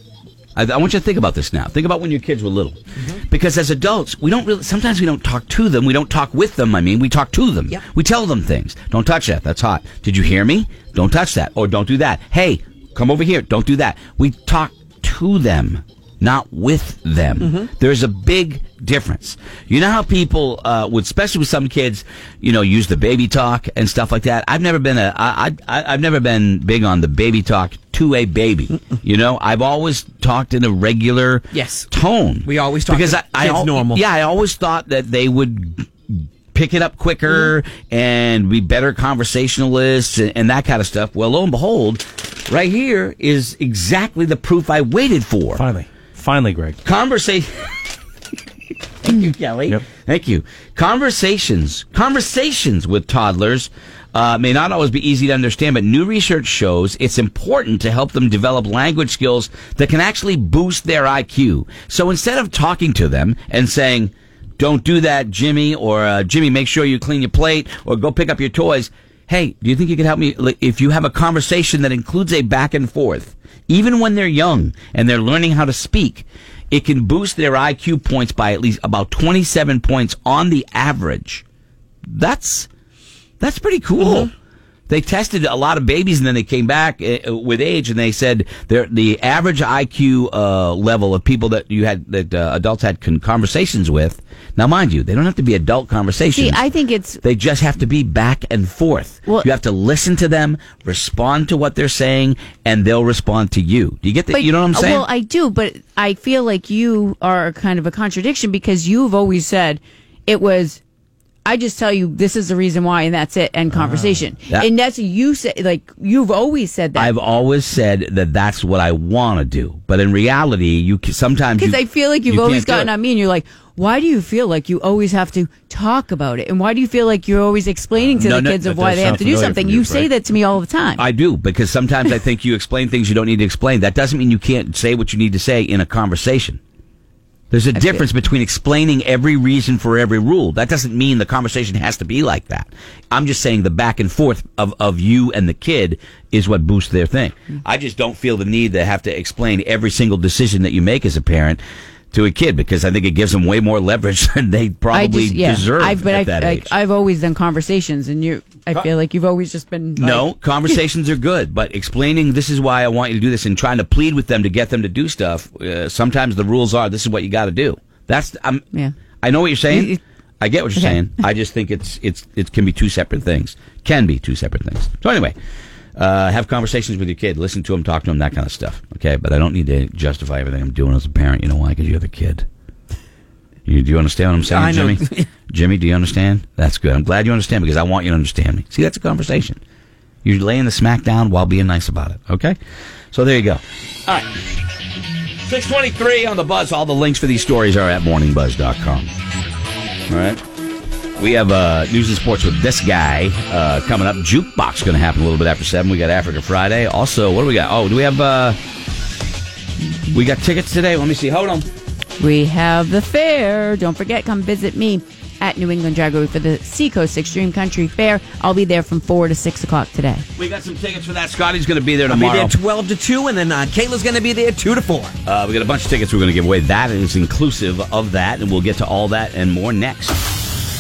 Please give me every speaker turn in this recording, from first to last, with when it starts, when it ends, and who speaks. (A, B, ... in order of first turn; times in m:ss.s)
0:00.6-0:45.6 A
0:17.4-0:17.7 B
0:31.5-0:31.9 B
0:32.4-0:34.0 B
0:45.5-0:46.8 C
0:46.8-0:47.5 A
0:49.0-1:21.4 A
1:22.1-1:22.7 A
1:23.4-1:24.3 A
1:24.9-1:36.6 A
1:36.3-1:37.2 D
1:37.2-1:45.1 A
1:44.3-1:50.8 D
1:51.4-1:57.1 D
1:57.0-2:02.9 A
2:01.6-2:11.0 D
2:08.2-2:09.2 A
2:08.8-2:10.1 C
2:11.0-2:16.6 A
2:17.5-2:36.7 A
2:17.8-2:18.1 D
2:34.9-2:40.3 D
2:40.0-2:48.6 A
2:49.2-2:55.4 A
2:49.7-2:50.0 D
2:50.8-2:51.0 D
2:56.0-3:02.5 A
3:03.7-3:09.6 A
3:04.5-3:05.3 B
3:10.2-3:12.6 A
3:13.1-3:14.4 A
3:15.4-3:19.1 A
3:20.1-3:20.4 A
3:21.2-3:28.6 A
3:30.1-3:31.7 A
3:32.2-3:40.2 D
3:40.4-3:42.6 A
3:42.1-3:45.1 B
3:45.2-3:50.2 A